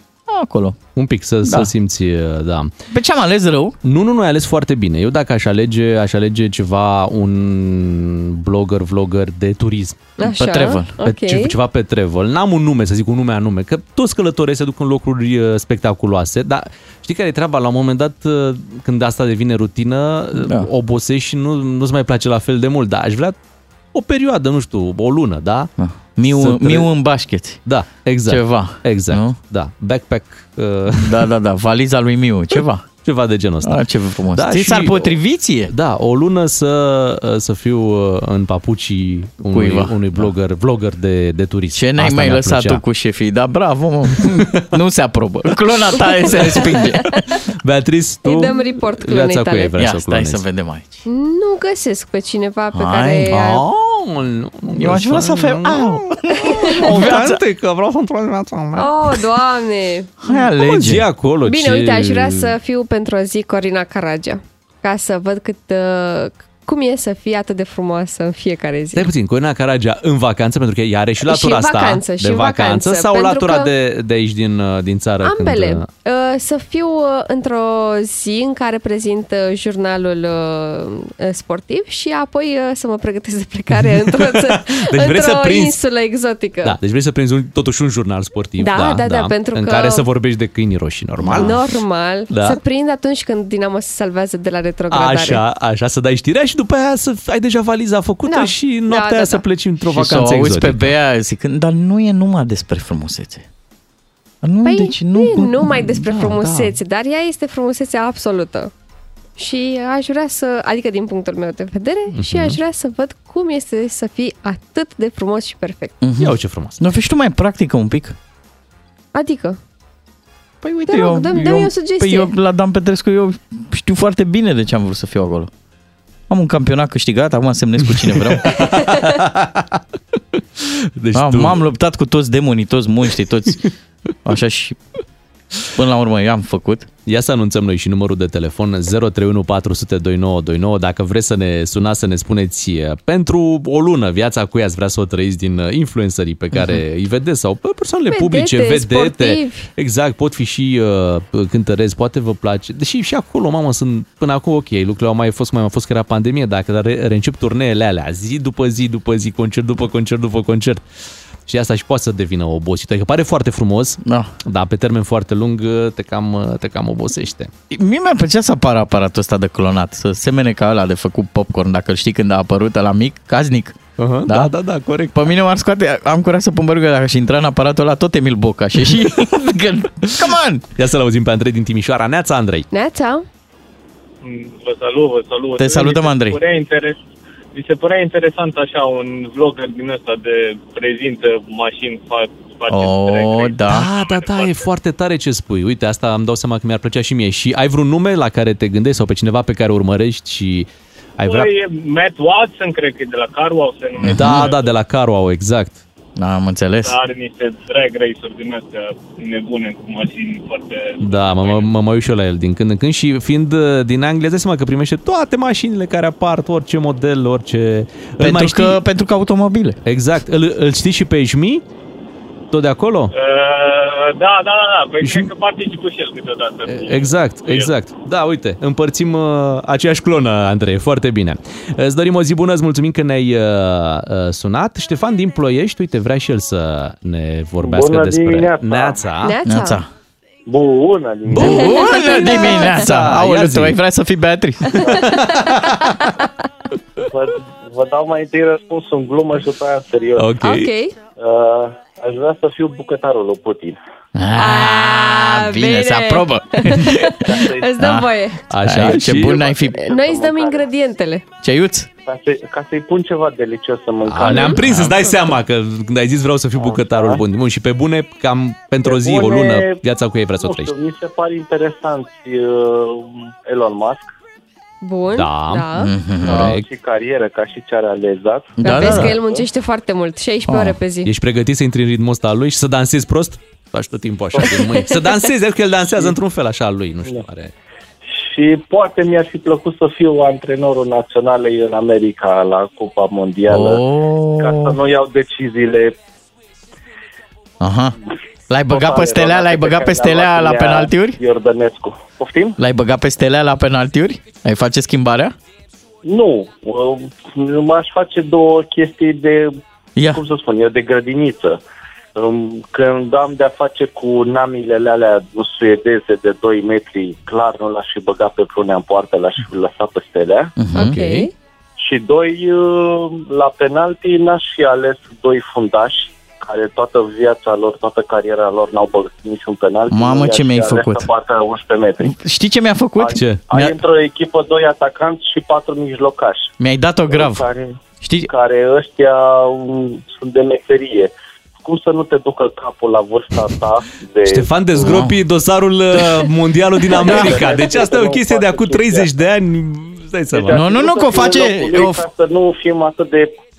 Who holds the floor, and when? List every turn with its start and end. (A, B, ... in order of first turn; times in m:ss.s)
0:00.3-0:00.8 A
0:01.0-0:02.7 B
0:01.4-0:01.7 A
0:02.9-0:03.8 A
0:03.8-0:10.0 B
0:10.2-0:11.5 C
0:10.2-0:10.9 A
0:11.0-0:23.4 B
0:20.4-0:20.7 A
0:23.9-0:25.7 B
0:25.8-0:27.6 A
0:26.3-0:26.9 B
0:27.7-0:31.2 B
0:28.3-0:29.4 A
0:31.0-0:32.8 A
0:33.0-0:33.8 B
0:33.6-0:35.7 A
0:34.4-0:35.2 B
0:35.7-0:42.8 B
0:39.5-0:40.3 A
0:41.8-0:47.4 A
0:44.2-0:44.6 B
0:46.0-0:46.8 B
0:47.5-0:50.4 B
0:48.2-0:49.8 C
0:49.8-0:51.0 A
0:51.1-0:53.6 C
0:52.7-0:53.6 A
0:53.3-0:59.2 B
0:54.8-0:57.4 A
0:58.8-1:00.2 C
1:00.2-1:01.1 A
1:00.3-1:02.5 B
1:01.5-1:09.1 C
1:08.9-1:15.9 B
1:11.2-1:13.7 C
1:15.2-1:26.8 C
1:23.8-1:25.8 B
1:26.6-1:31.6 B
1:28.6-1:30.0 C
1:31.4-1:35.4 C
1:32.3-1:32.6 B
1:34.9-1:40.9 B
1:38.3-1:39.4 C
1:39.9-1:43.4 A
1:44.4-1:46.1 A
1:44.6-1:48.7 C
1:46.0-1:46.7 B
1:49.4-1:56.0 C
1:52.1-1:52.6 B
1:56.0-1:58.2 A
1:56.2-1:56.8 B
1:59.1-1:59.6 C
2:00.6-2:05.5 A
2:00.9-2:02.3 C
2:06.3-2:08.8 A
2:07.9-2:09.8 B
2:10.4-2:11.6 B
2:11.1-2:13.7 A
2:14.2-2:14.8 A
2:15.7-2:16.9 A
2:17.1-2:40.8 B
2:26.5-2:26.8 A
2:28.1-2:29.7 C
2:41.5-2:47.5 B
2:44.0-2:44.3 A
2:47.7-2:54.5 A
2:54.0-2:55.2 B
2:55.1-3:00.6 A
3:00.8-3:02.7 B
3:02.7-3:03.2 C
3:04.2-3:07.0 D
3:05.6-3:06.4 A
3:07.6-3:14.6 D
3:12.7-3:13.9 A
3:13.7-3:21.5 B
3:21.2-3:24.7 D
3:24.0-3:24.5 A
3:24.1-3:25.8 B
3:26.2-3:27.0 A
3:26.8-3:31.7 D
3:31.0-3:38.8 B
3:38.2-3:39.8 A
3:39.9-3:41.6 B
3:42.5-3:43.1 B
3:43.1-3:47.7 D
3:45.0-3:45.3 B
3:46.6-3:59.4 B
3:57.6-3:59.0 E
3:59.2-3:59.8 C
3:59.5-3:59.9 A
4:00.5-4:01.7 E
4:01.4-4:03.8 B
4:01.4-4:04.9 A
4:01.4-4:02.8 C
4:04.8-4:06.1 B
4:05.6-4:06.1 C
4:07.1-4:10.3 E
4:10.2-4:10.7 B
4:10.4-4:11.0 C
4:11.2-4:13.8 E
4:14.2-4:17.2 A
4:14.4-4:18.4 C
4:17.2-4:17.8 E
4:17.8-4:18.1 A
4:18.5-4:19.5 B
4:18.6-4:19.8 A
4:19.3-4:20.7 E
4:19.8-4:21.2 C
4:21.4-4:21.9 A
4:22.0-4:24.6 E
4:24.2-4:25.0 A
4:24.2-4:30.7 B
4:24.3-4:24.6 C
4:26.6-4:27.2 E
4:28.8-4:29.8 E
4:30.4-4:34.1 E
4:34.8-4:35.9 C
4:35.1-4:35.7 B
4:35.8-4:36.6 A
4:36.2-4:36.6 B
4:36.3-4:39.5 E
4:38.6-4:39.2 A
4:38.6-4:41.1 C
4:40.5-4:40.8 A
4:41.0-4:47.5 B
4:44.4-4:44.9 C
4:48.1-4:53.8 E
4:53.5-4:54.8 A
4:54.4-4:56.0 E
4:57.6-4:58.0 A
4:58.5-5:01.2 A
4:58.7-5:02.6 E
5:02.6-5:05.4 A
5:06.0-5:09.6 E
5:10.0-5:10.2 A
5:10.1-5:11.6 E
5:12.2-5:20.5 E
5:20.6-5:21.3 A
5:20.7-5:21.3 C
5:21.8-5:32.2 E
5:29.9-5:31.1 A
5:32.0-5:33.8 A
5:33.0-5:36.5 E
5:33.1-5:33.4 B
5:36.6-5:37.5 A
5:37.1-5:45.0 E
5:38.0-5:38.3 A
5:44.3-5:50.6 B
5:44.8-5:45.2 A
5:46.9-5:49.1 E
5:47.0-5:47.4 A
5:50.3-5:53.4 E
5:50.5-5:52.0 A